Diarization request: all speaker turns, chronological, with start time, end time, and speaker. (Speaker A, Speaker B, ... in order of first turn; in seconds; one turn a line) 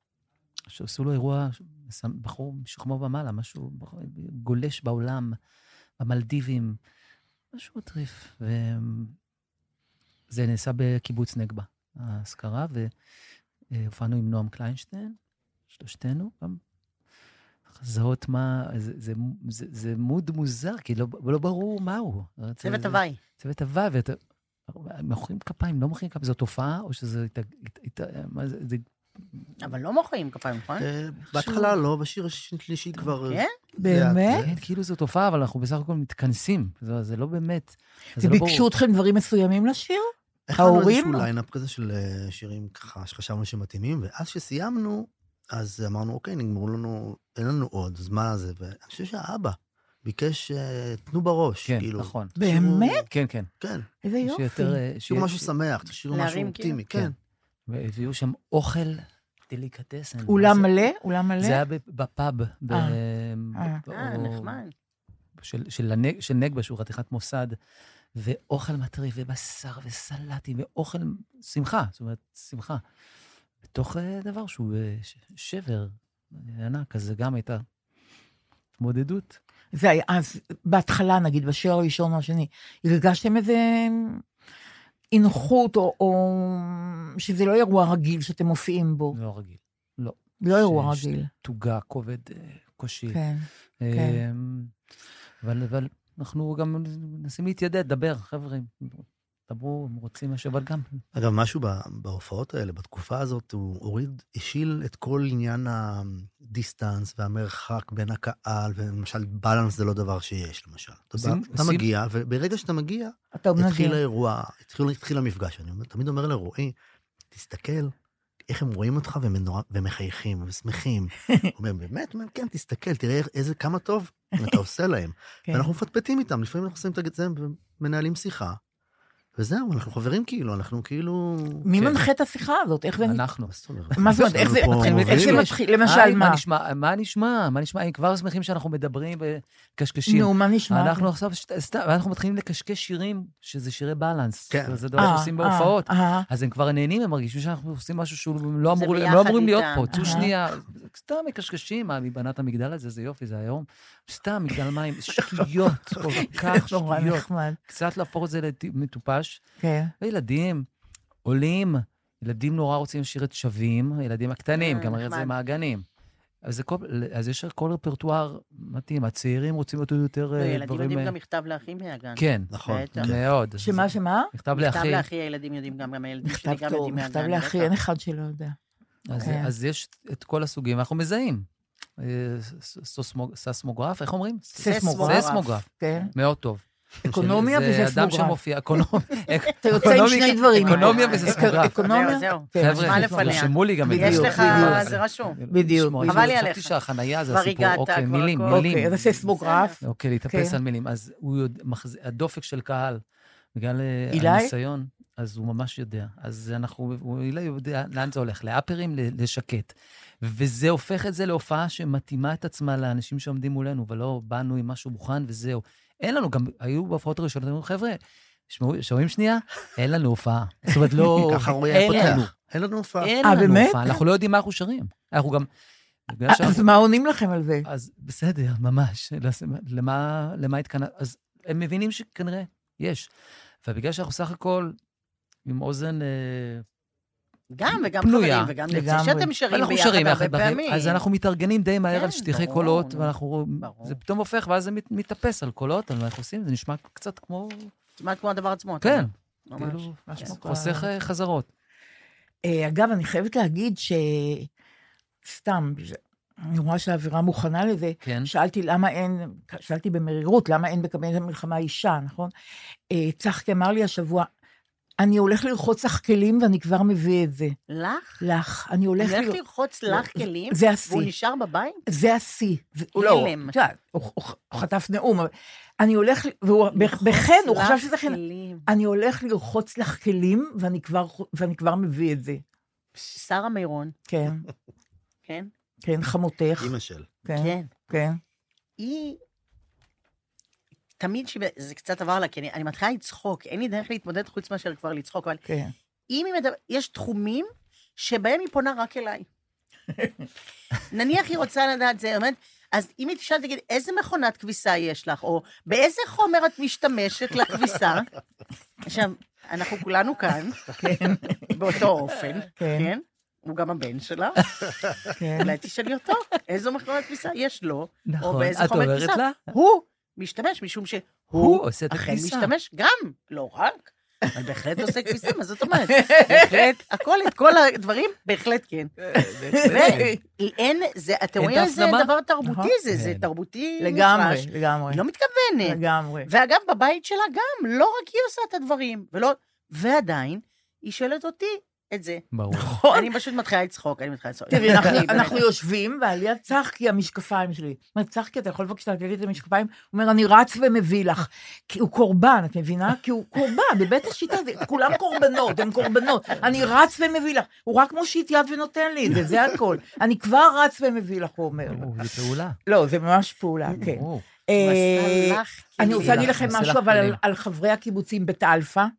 Speaker A: 0.7-5.4
Speaker A: 6.0-6.8
Speaker A: 7.5-9.2
Speaker A: 10.3-12.9
Speaker A: 13.7-15.2
Speaker A: 15.7-16.6
Speaker A: 17.7-24.2
Speaker B: 22.6-23.2
Speaker A: 24.7-28.8
Speaker B: 29.6-30.9
Speaker C: 30.8-34.6
Speaker D: 31.4-31.7
Speaker D: 33.8-34.4
Speaker A: 34.4-38.6
Speaker D: 38.2-41.3
Speaker C: 40.5-53.1
Speaker A: 51.6-52.3
Speaker D: 52.4-53.0
Speaker A: 53.1-53.5
Speaker C: 53.6-53.9
Speaker D: 54.0-54.8
Speaker A: 54.2-55.5
Speaker C: 55.1-57.1
Speaker B: 56.1-56.8
Speaker A: 57.7-64.6
Speaker D: 60.3-61.6
Speaker B: 63.9-64.7
Speaker A: 65.4-67.5
Speaker A: 68.2-72.8
Speaker A: 73.7-77.6
Speaker A: 78.8-79.4
Speaker D: 79.7-84.2
Speaker D: 85.1-89.2
Speaker A: 89.1-93.2
Speaker D: 90.4-91.3
Speaker D: 93.1-94.2
Speaker A: 93.8-94.7
Speaker A: 95.4-101.0
Speaker C: 101.1-116.7
Speaker A: 111.2-111.8
Speaker D: 113.3-114.0
Speaker C: 117.3-117.9
Speaker C: 118.5-128.6
Speaker C: 129.4-131.7
Speaker D: 131.6-133.2
Speaker A: 133.0-159.4
Speaker C: 133.5-135.4
Speaker D: 134.0-136.4
Speaker D: 140.1-141.1
Speaker C: 144.5-145.2
Speaker D: 145.0-146.3
Speaker B: 148.7-150.2
Speaker D: 149.9-150.3
Speaker D: 156.2-157.6
Speaker D: 159.6-159.9
Speaker A: 160.0-160.7
Speaker A: 161.2-165.8
Speaker B: 164.6-165.3
Speaker A: 166.4-171.1
Speaker B: 170.4-173.1
Speaker A: 172.2-175.0
Speaker C: 172.5-173.2
Speaker D: 173.6-174.3
Speaker B: 174.5-177.7
Speaker D: 176.2-178.6
Speaker A: 179.1-181.4
Speaker D: 179.2-179.5
Speaker A: 182.0-191.8
Speaker B: 184.6-186.1
Speaker D: 184.6-186.1
Speaker D: 187.1-188.4
Speaker D: 189.6-194.9
Speaker B: 189.8-195.4
Speaker A: 192.6-198.9
Speaker D: 195.5-196.3
Speaker B: 196.1-199.8
Speaker D: 198.5-199.8
Speaker A: 199.8-203.0
Speaker D: 200.3-200.6
Speaker A: 203.5-222.3
Speaker D: 204.1-204.5
Speaker C: 221.1-223.1
Speaker D: 221.7-222.2
Speaker A: 223.0-225.5
Speaker D: 223.2-224.0
Speaker A: 226.1-226.6
Speaker D: 226.3-227.7
Speaker A: 227.7-233.1
Speaker A: 233.6-234.7
Speaker A: 235.4-236.6
Speaker B: 237.5-241.0
Speaker A: 237.7-238.5
Speaker D: 238.7-239.3
Speaker A: 239.5-247.7
Speaker B: 241.9-244.0
Speaker B: 248.0-250.3
Speaker A: 248.8-251.5
Speaker D: 250.1-250.9
Speaker D: 252.4-254.5
Speaker D: 255.2-262.3
Speaker A: 258.0-258.3
Speaker D: 262.9-264.3
Speaker D: 265.0-267.6
Speaker B: 267.7-268.2
Speaker D: 268.2-271.1
Speaker B: 269.0-271.8
Speaker D: 271.9-282.4
Speaker B: 272.9-273.5
Speaker B: 276.7-278.6
Speaker B: 282.9-283.9
Speaker D: 284.1-284.4
Speaker D: 285.8-286.7
Speaker C: 286.6-287.1
Speaker D: 287.2-288.2
Speaker B: 287.3-287.7
Speaker B: 288.8-289.2
Speaker B: 291.0-295.4
Speaker D: 295.4-295.7
Speaker B: 296.1-299.3
Speaker D: 299.9-300.2
Speaker B: 300.9-308.1
Speaker B: 308.8-310.7
Speaker D: 310.8-311.5
Speaker B: 311.5-314.4
Speaker D: 312.6-312.9
Speaker D: 315.1-315.5
Speaker B: 315.4-328.9
Speaker A: 318.1-319.5
Speaker A: 321.3-322.5
Speaker D: 325.9-326.5
Speaker A: 329.0-330.1
Speaker D: 329.5-330.2
Speaker B: 329.6-342.2
Speaker A: 331.4-332.1
Speaker D: 332.4-332.7
Speaker A: 332.9-333.3
Speaker D: 333.8-335.0
Speaker D: 335.6-336.3
Speaker A: 342.3-342.8
Speaker D: 342.5-343.1
Speaker B: 342.9-345.4
Speaker D: 344.5-361.9
Speaker A: 361.7-362.6
Speaker D: 362.6-368.9
Speaker A: 363.8-364.2
Speaker B: 364.6-366.5
Speaker A: 365.9-367.2